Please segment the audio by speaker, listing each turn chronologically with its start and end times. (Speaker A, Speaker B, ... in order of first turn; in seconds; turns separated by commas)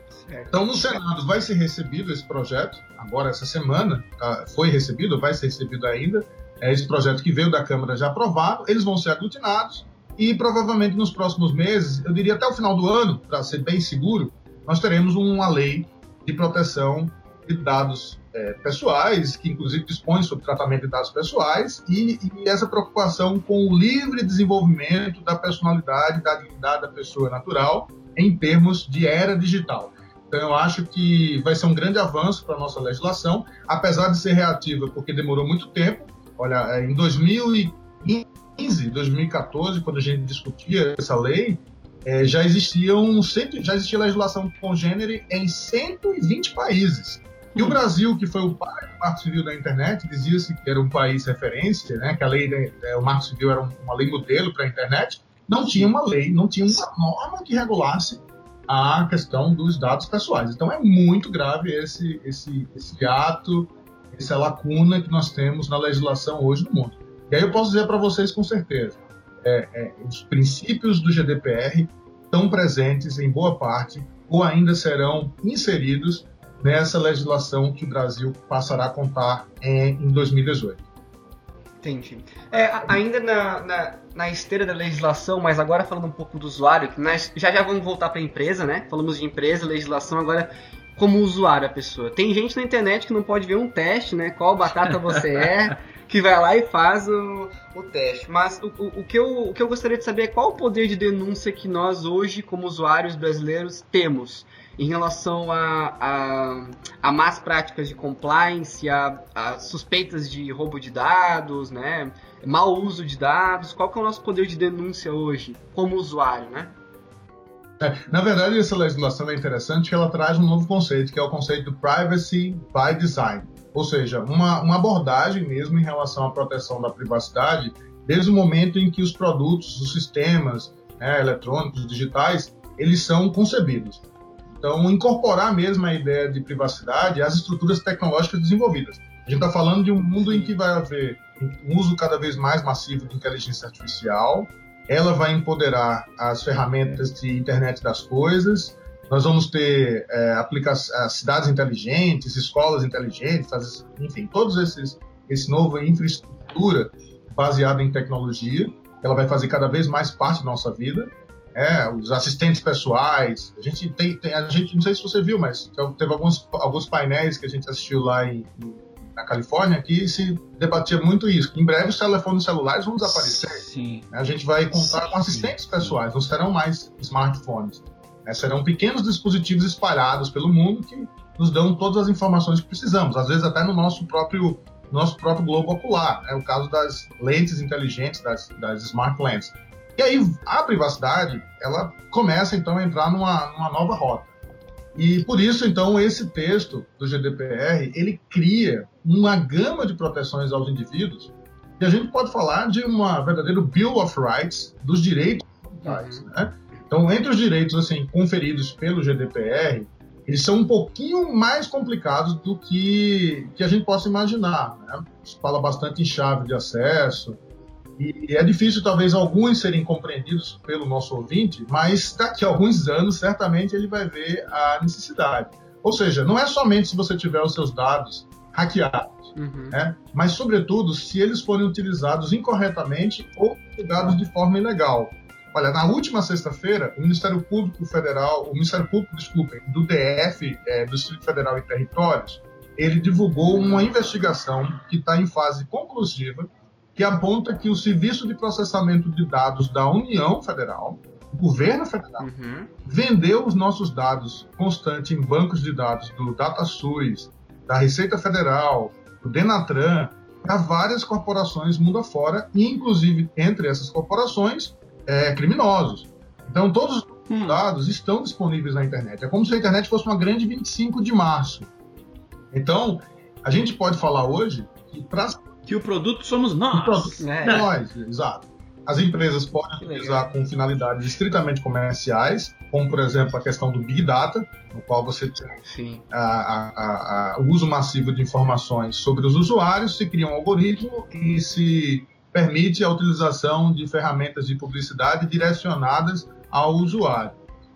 Speaker A: 0.2-1.0, Speaker B: 0.5-80.8, Speaker C: 47.5-47.8, Speaker A: 81.8-116.8, Speaker B: 117.8-134.0, Speaker B: 134.6-194.3, Speaker C: 173.1-174.1, Speaker C: 175.3-176.0, Speaker B: 194.9-217.4, Speaker A: 205.9-206.2, Speaker B: 218.0-252.3, Speaker A: 229.4-229.8, Speaker A: 243.6-243.8, Speaker A: 252.2-252.7, Speaker B: 252.8-271.7, Speaker C: 267.3-267.6, Speaker B: 272.5-275.5, Speaker C: 275.6-277.7, Speaker B: 276.7-285.6, Speaker A: 277.2-277.7, Speaker A: 279.8-280.4, Speaker A: 285.6-286.0, Speaker B: 286.1-297.4